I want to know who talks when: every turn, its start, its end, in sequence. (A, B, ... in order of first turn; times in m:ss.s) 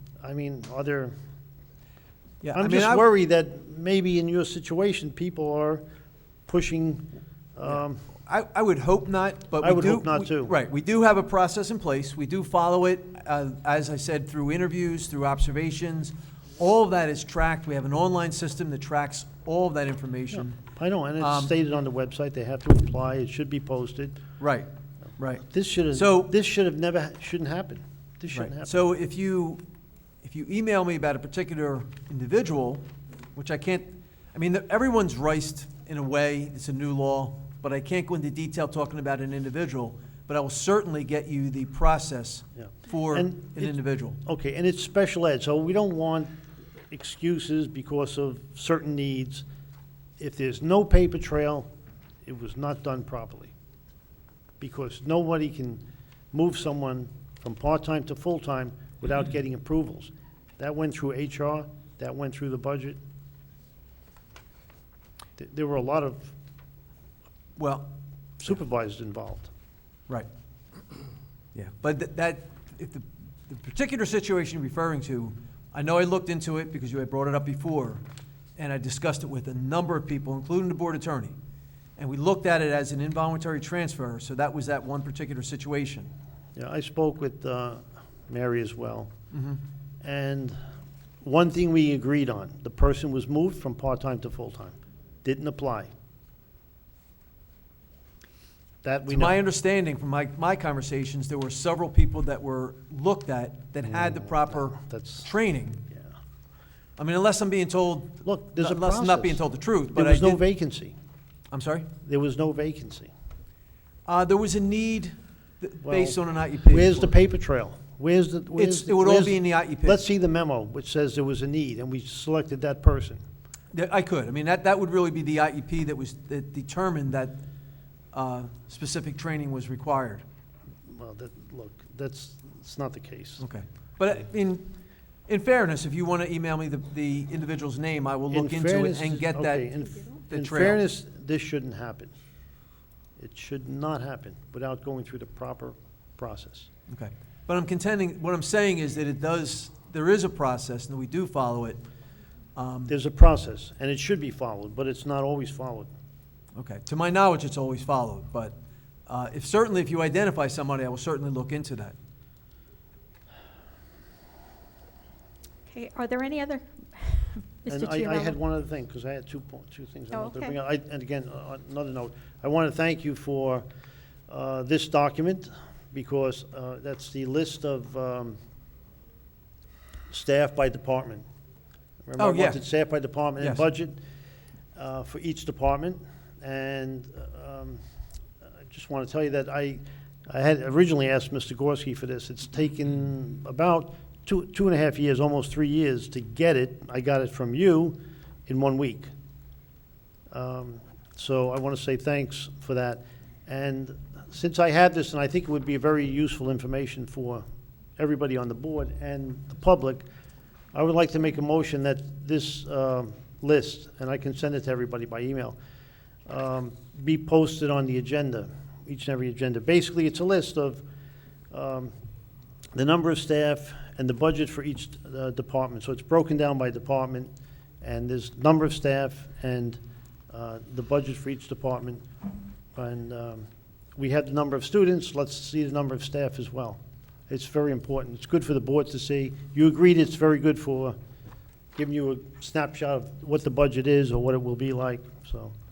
0:00.2-0:01.1 A
0:02.4-0:03.1 B
0:02.5-0:05.8 A
0:06.5-0:08.0 A
0:08.2-0:20.6 B
0:09.6-0:10.5 A
0:20.3-0:24.2 A
0:21.2-0:21.5 B
0:24.4-0:24.7 B
0:25.2-0:26.3 B
0:25.4-0:28.9 A
0:28.3-0:29.6 B
0:30.2-0:44.2 B
0:42.6-0:46.3 A
0:46.9-0:49.4 A
0:50.2-0:51.7 A
0:52.2-0:53.5 A
0:54.6-1:03.0 A
1:05.4-1:06.3 A
1:07.6-1:07.9 B
1:08.4-1:09.5 A
1:11.5-1:18.0 B
1:18.6-1:21.3 B
1:22.0-1:26.1 B
1:26.6-1:29.1 A
1:29.3-1:29.6 B
1:30.0-1:30.6 A
1:31.2-1:35.9 A
1:38.8-1:39.4 A
1:39.1-1:45.8 B
1:43.9-1:45.3 A
1:47.0-1:50.4 B
1:48.2-1:50.9 A
1:51.5-1:51.9 B
1:52.0-1:53.1 A
1:54.1-1:57.1 B
1:55.8-2:03.2 A
1:58.6-2:00.0 B
2:03.7-2:07.4 B
2:08.1-2:10.2 B
2:10.9-2:13.4 A
2:13.4-2:14.7 B
2:15.3-2:19.7 B
2:18.3-2:22.1 A
2:20.3-2:20.8 B
2:23.2-2:26.7 A
2:26.9-2:31.8 B
2:32.6-2:32.9 B
2:32.9-2:35.9 A
2:36.5-2:38.5 B
2:39.1-2:41.9 B
2:45.7-2:48.4 C
2:47.7-2:53.6 A
2:50.1-2:50.6 C
2:54.3-2:58.4 A
3:00.1-3:01.2 A
3:02.0-3:04.0 A
3:02.2-3:02.6 B
3:04.7-3:07.8 A
3:08.7-3:19.1 A
3:20.3-3:27.4 A
3:28.0-3:30.0 A
3:30.7-3:35.6 A
3:36.3-3:40.8 A
3:41.5-3:41.9 A
3:42.7-3:47.3 A
3:47.8-3:49.8 A
3:50.3-3:52.0 A
3:52.7-4:01.0 A
4:01.7-4:05.5 A